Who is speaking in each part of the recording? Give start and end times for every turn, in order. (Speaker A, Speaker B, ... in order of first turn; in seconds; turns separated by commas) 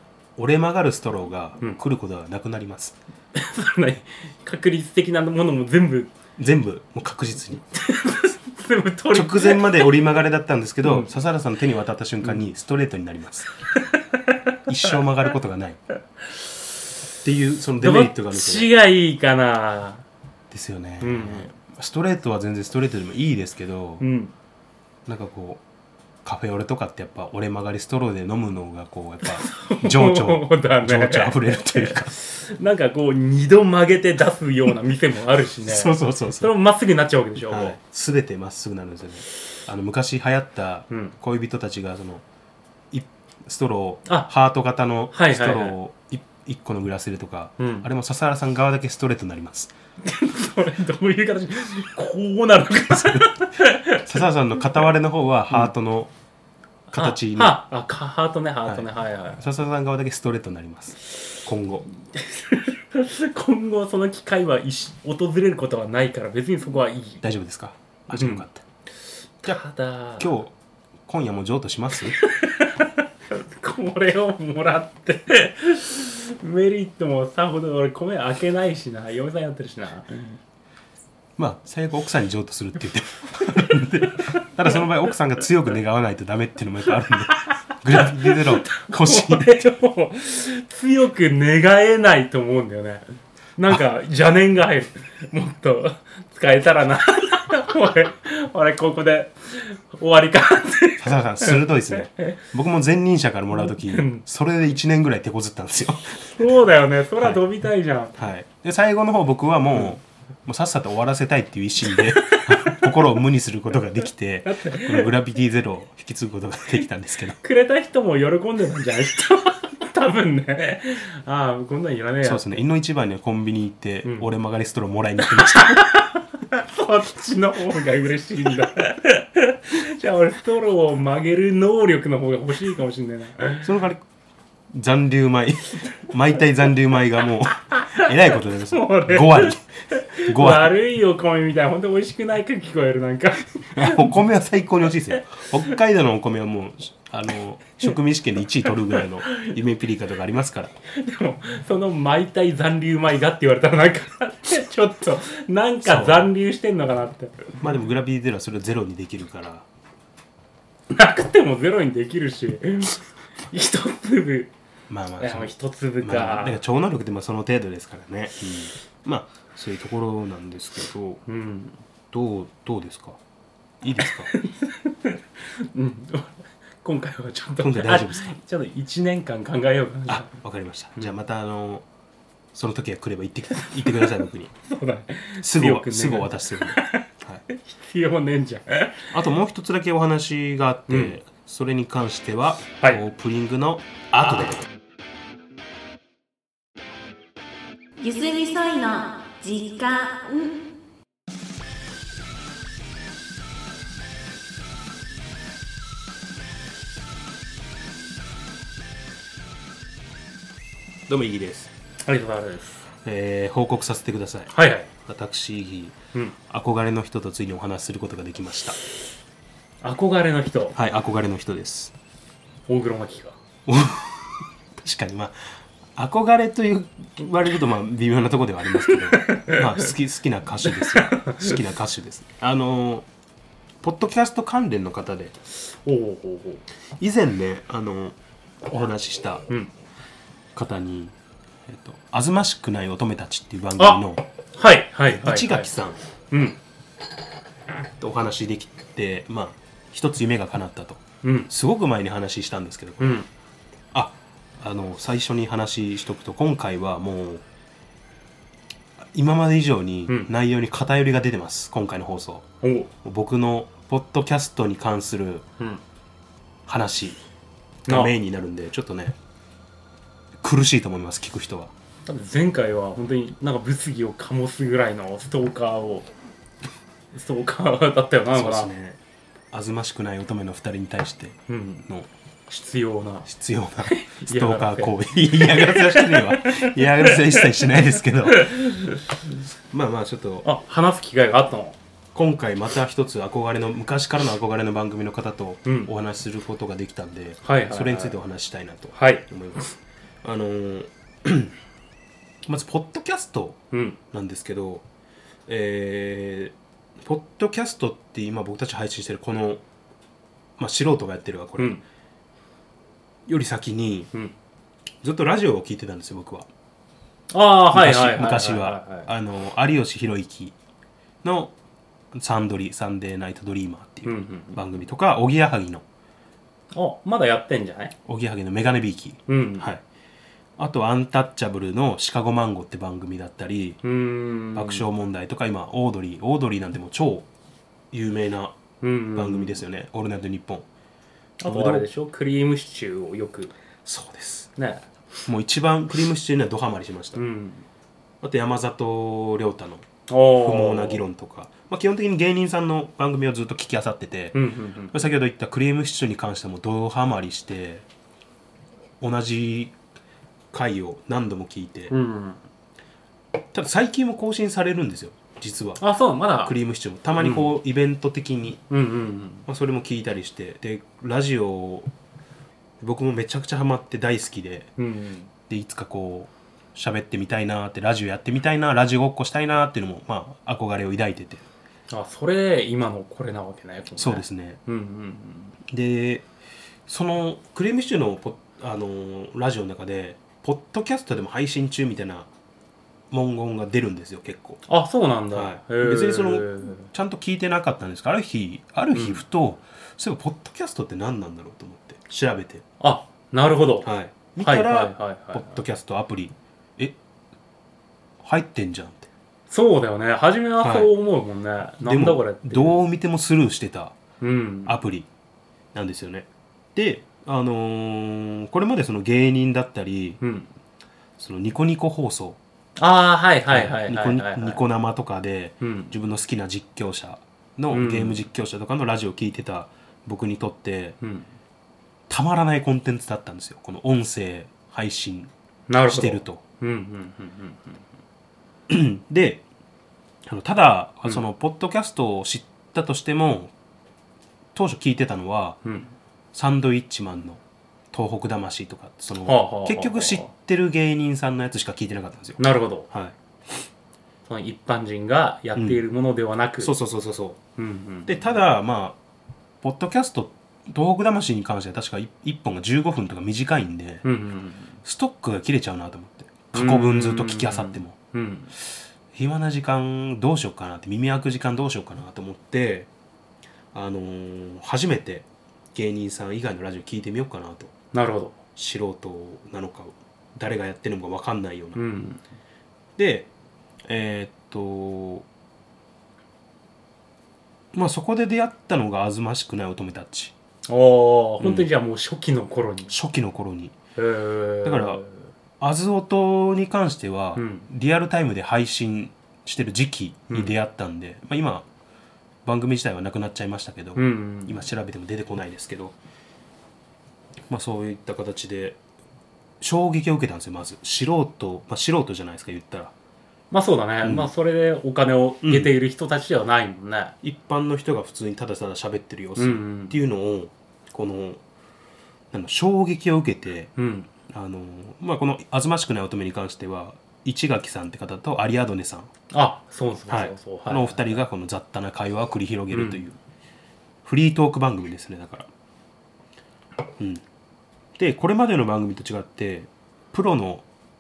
Speaker A: 0.4-3.0, Speaker B: 3.3-6.1, Speaker A: 6.4-7.6, Speaker B: 7.7-9.9, Speaker A: 9.1-13.5, Speaker B: 10.8-11.1, Speaker B: 13.7-14.9, Speaker A: 14.7-15.8, Speaker A: 17.2-18.7, Speaker B: 17.8-20.0, Speaker A: 20.5-24.0, Speaker B: 21.0-21.5, Speaker B: 24.0-24.3, Speaker A: 25.1-25.6, Speaker A: 26.2-32.2, Speaker B: 29.2-37.8, Speaker A: 35.6-36.5, Speaker A: 37.5-42.2, Speaker B: 40.9-41.1, Speaker A: 42.9-49.7, Speaker B: 45.1-45.8, Speaker B: 47.6-47.9, Speaker B: 50.0-54.3, Speaker A: 52.9-53.4, Speaker A: 54.0-56.1, Speaker B: 56.9-59.4, Speaker A: 56.9-57.6, Speaker A: 58.6-61.9, Speaker B: 62.1-67.2, Speaker A: 67.2-68.6, Speaker B: 68.1-68.5, Speaker B: 69.4-70.3, Speaker A: 70.2-70.5, Speaker A: 71.1-72.2, Speaker B: 72.2-80.4, Speaker A: 81.4-89.7, Speaker B: 84.2-84.9, Speaker B: 87.0-93.1, Speaker B: 93.6-102.4, Speaker A: 101.0-106.5, Speaker B: 103.5-104.2, Speaker B: 106.2-108.2, Speaker A: 108.2-117.4, Speaker B: 111.9-113.1, Speaker B: 114.5-115.1, Speaker B: 117.4-122.7, Speaker A: 122.2-125.9, Speaker B: 124.0-124.3, Speaker B: 125.2-133.8, Speaker A: 133.6-134.0, Speaker A: 134.7-139.7, Speaker B: 137.7-144.1, Speaker A: 140.2-140.8, Speaker A: 143.8-150.7, Speaker B: 148.9-149.5, Speaker B: 150.9-157.6, Speaker A: 155.8-156.3, Speaker A: 157.6-159.7, Speaker B: 160.9-164.5, Speaker A: 164.9-171.2, Speaker B: 165.2-166.6, Speaker B: 171.3-171.8, Speaker A: 172.1-173.2, Speaker A: 173.8-174.3, Speaker B: 174.3-180.3, Speaker A: 177.6-178.4, Speaker A: 180.1-181.8, Speaker A: 182.5-184.5, Speaker B: 183.9-184.1, Speaker B: 184.6-189.1, Speaker A: 185.4-187.4, Speaker A: 189.1-194.7, Speaker B: 190.9-191.2, Speaker C: 198.0-200.7, Speaker A: 211.1-211.7, Speaker B: 212.0-212.9, Speaker A: 213.0-216.0, Speaker B: 214.5-214.9, Speaker A: 216.5-218.8, Speaker B: 219.8-220.8, Speaker A: 220.7-221.9, Speaker B: 222.7-223.4, Speaker A: 223.7-233.1, Speaker B: 228.9-229.9, Speaker B: 230.7-231.6, Speaker A: 233.8-235.3, Speaker B: 235.7-236.6, Speaker A: 237.0-239.4, Speaker A: 240.6-241.2, Speaker A: 241.7-244.2, Speaker B: 243.8-244.0, Speaker B: 244.5-245.7, Speaker A: 245.1-246.0, Speaker B: 246.3-246.6, Speaker A: 248.0-253.2, Speaker B: 251.2-251.5, Speaker B: 253.0-253.3, Speaker A: 253.9-257.4, Speaker A: 259.1-262.5, Speaker B: 262.6-262.9, Speaker A: 263.0-265.4, Speaker A: 266.7-267.2, Speaker A: 267.9-269.2, Speaker B: 267.9-268.1, Speaker A: 270.4-271.7, Speaker B: 272.1-276.1, Speaker B: 277.1-278.7, Speaker A: 278.3-279.0, Speaker A: 279.5-282.1, Speaker B: 281.5-281.9, Speaker B: 282.5-283.3, Speaker A: 283.2-288.6, Speaker B: 283.8-289.0, Speaker A: 289.7-290.5, Speaker B: 290.4-291.8, Speaker A: 292.1-301.5, Speaker B: 295.6-295.9, Speaker B: 297.4-298.2, Speaker B: 298.9-299.3, Speaker A: 302.5-304.8, Speaker B: 303.7-304.0, Speaker A: 305.5-309.6, Speaker A: 310.6-311.8, Speaker A: 313.3-314.1, Speaker A: 315.0-316.5, Speaker B: 317.3-319.1, Speaker A: 317.7-320.6, Speaker A: 321.2-321.5, Speaker A: 322.1-325.8, Speaker B: 324.1-324.6, Speaker B: 326.7-327.9, Speaker A: 328.1-329.8, Speaker B: 329.3-329.7, Speaker A: 330.6-333.8, Speaker B: 333.8-334.9, Speaker A: 334.5-337.3, Speaker A: 337.9-338.6, Speaker B: 338.8-339.6, Speaker A: 339.1-340.7, Speaker B: 341.4-343.5, Speaker A: 341.4-341.9, Speaker A: 343.9-344.5, Speaker B: 344.6-344.9, Speaker A: 345.3-347.2, Speaker B: 347.1-347.7, Speaker A: 348.2-354.4, Speaker B: 350.1-351.1, Speaker B: 354.3-355.1, Speaker A: 354.9-357.9, Speaker A: 359.0-359.7, Speaker A: 360.5-361.9, Speaker B: 361.9-362.4, Speaker A: 363.5-365.8, Speaker B: 365.8-366.6, Speaker A: 366.4-368.6, Speaker B: 367.2-367.5, Speaker B: 368.7-369.5, Speaker A: 369.5-371.9, Speaker A: 372.8-374.7, Speaker B: 374.8-375.3, Speaker A: 375.5-381.4, Speaker B: 381.9-385.6, Speaker A: 384.0-384.6, Speaker A: 385.7-386.3, Speaker A: 386.9-392.3, Speaker A: 393.1-394.6, Speaker B: 394.7-396.9, Speaker A: 395.3-402.6, Speaker B: 398.9-399.2, Speaker B: 402.8-403.9, Speaker A: 403.8-407.0, Speaker B: 404.4-405.6, Speaker A: 408.2-409.1, Speaker B: 409.5-412.8, Speaker A: 410.6-410.9, Speaker A: 411.9-414.0, Speaker B: 414.2-414.8, Speaker A: 414.7-415.1, Speaker A: 415.7-420.2, Speaker B: 420.2-420.5, Speaker A: 421.2-422.4, Speaker B: 422.8-424.6, Speaker A: 423.5-431.0, Speaker B: 425.6-425.9, Speaker B: 427.7-428.2, Speaker B: 431.0-431.3, Speaker A: 432.1-435.3, Speaker B: 435.7-437.8, Speaker A: 435.9-436.4, Speaker A: 438.7-439.4, Speaker A: 440.2-443.5, Speaker A: 444.6-445.6, Speaker B: 445.6-445.9, Speaker A: 446.3-447.4, Speaker A: 447.9-453.6, Speaker B: 449.2-450.3, Speaker B: 452.4-452.9, Speaker B: 454.3-456.7, Speaker A: 455.6-455.8, Speaker A: 456.6-457.4, Speaker B: 457.6-458.2, Speaker A: 458.1-459.0, Speaker A: 459.6-464.1, Speaker B: 464.0-464.8, Speaker A: 464.8-467.9, Speaker B: 466.5-468.5, Speaker A: 469.1-472.9, Speaker A: 473.7-477.7, Speaker B: 477.9-478.4, Speaker A: 478.6-481.8, Speaker B: 481.8-482.2, Speaker A: 483.0-483.3, Speaker A: 483.9-485.3, Speaker A: 487.7-490.3, Speaker B: 490.7-492.9, Speaker A: 491.4-491.7, Speaker A: 492.9-493.8, Speaker B: 494.0-495.2, Speaker A: 494.6-495.0, Speaker A: 495.6-501.7, Speaker B: 497.4-497.7, Speaker A: 502.4-506.0, Speaker B: 504.0-504.6, Speaker A: 507.5-508.8, Speaker A: 509.6-512.9, Speaker B: 513.5-517.2, Speaker A: 514.0-514.3, Speaker A: 515.4-515.7, Speaker A: 517.2-521.4, Speaker B: 519.4-520.0, Speaker A: 522.3-523.7, Speaker B: 523.8-524.1, Speaker A: 524.3-529.1, Speaker B: 529.3-531.2, Speaker A: 530.1-533.2, Speaker B: 532.7-533.1, Speaker A: 534.0-535.5, Speaker A: 537.0-537.2, Speaker A: 538.0-540.6